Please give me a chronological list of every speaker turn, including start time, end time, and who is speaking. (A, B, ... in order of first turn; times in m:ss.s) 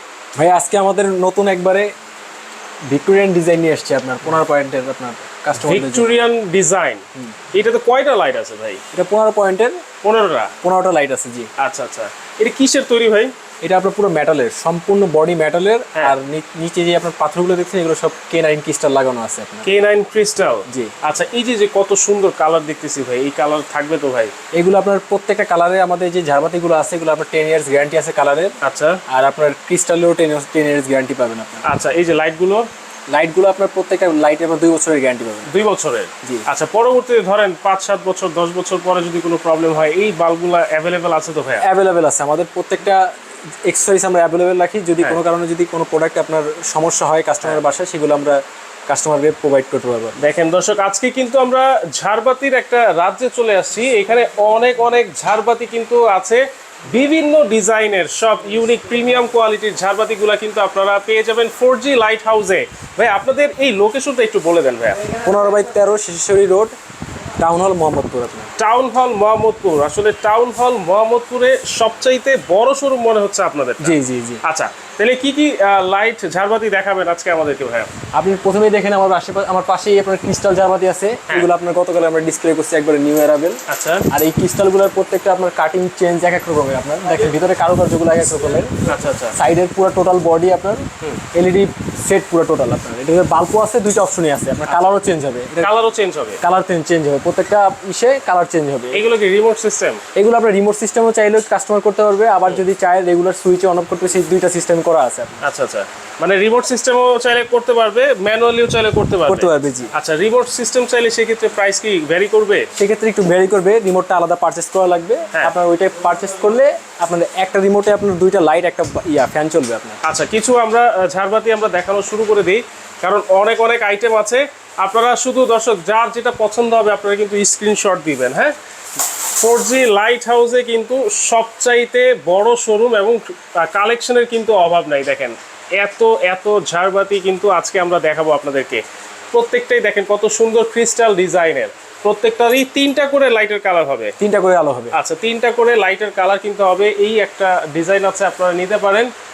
0:00.4-0:01.9 A
0:02.9-0:06.2 A
0:05.6-0:08.8 B
0:08.9-0:09.8 A
0:10.0-0:10.5 B
0:10.6-0:11.5 A
0:11.6-0:13.3 B
0:13.6-0:19.7 A
0:19.6-0:24.3 B
0:20.7-0:20.9 A
0:24.5-0:28.6 A
0:28.6-0:29.0 B
0:29.1-0:31.6 A
0:31.6-0:32.7 B
0:33.1-0:35.5 A
0:35.5-0:41.7 B
0:41.6-0:43.1 A
0:43.6-0:50.2 A
0:50.2-1:05.0 B
1:05.2-1:06.7 A
1:07.4-1:08.5 A
1:08.6-1:17.9 B
1:13.8-1:14.4 A
1:18.1-1:28.8 A
1:23.7-1:24.0 B
1:28.8-1:29.4 B
1:29.3-1:35.7 A
1:35.6-1:36.4 B
1:36.4-1:39.0 A
1:38.9-1:40.0 B
1:40.1-1:45.4 A
1:45.4-1:52.7 B
1:49.2-1:49.9 A
1:52.8-2:00.0 A
2:00.0-2:08.5 B
2:09.4-2:24.1 B
2:24.2-2:25.0 A
2:24.9-2:29.1 B